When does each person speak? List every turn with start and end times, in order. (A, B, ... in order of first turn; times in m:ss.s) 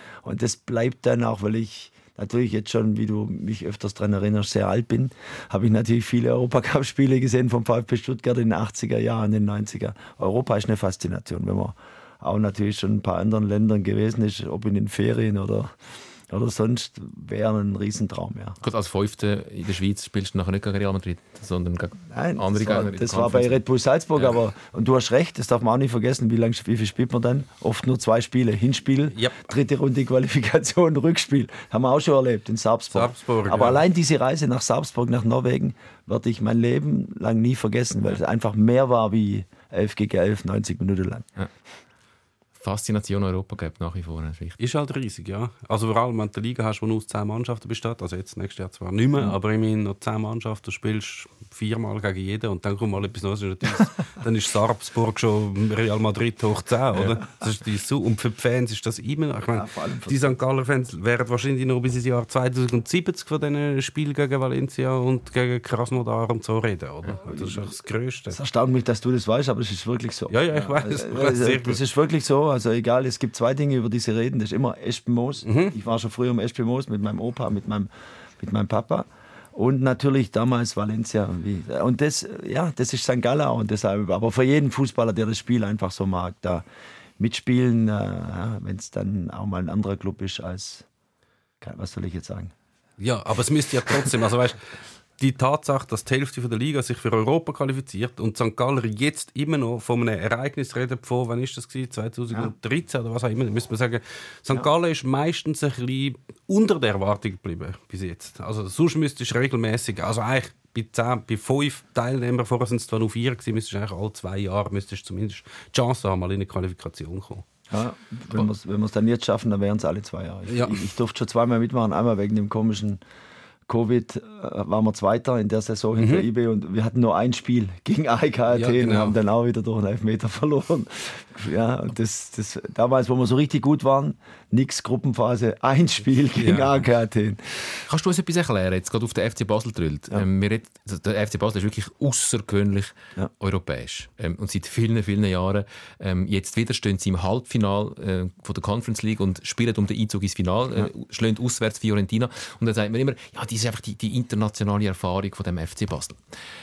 0:00.2-0:15.7 A
0:16.3-0:18.6 A
0:18.6-0:23.6 B
0:22.1-0:41.3 A
0:29.1-0:29.5 C
0:32.9-0:33.8 C
0:42.6-0:44.6 B
0:44.6-1:08.4 C
0:59.5-1:00.3 A
1:07.2-1:07.7 A
1:08.3-1:17.9 A
1:10.3-1:11.8 C
1:15.5-1:15.8 C
1:18.4-1:26.6 A
1:27.2-1:30.9 A
1:31.6-1:32.5 A
1:33.0-1:34.6 C
1:35.2-1:57.4 C
1:57.7-2:03.0 A
2:00.5-2:00.8 C
2:03.7-2:17.8 A
2:06.0-2:06.3 C
2:08.5-2:09.2 C
2:16.4-2:16.7 C
2:17.9-2:36.2 B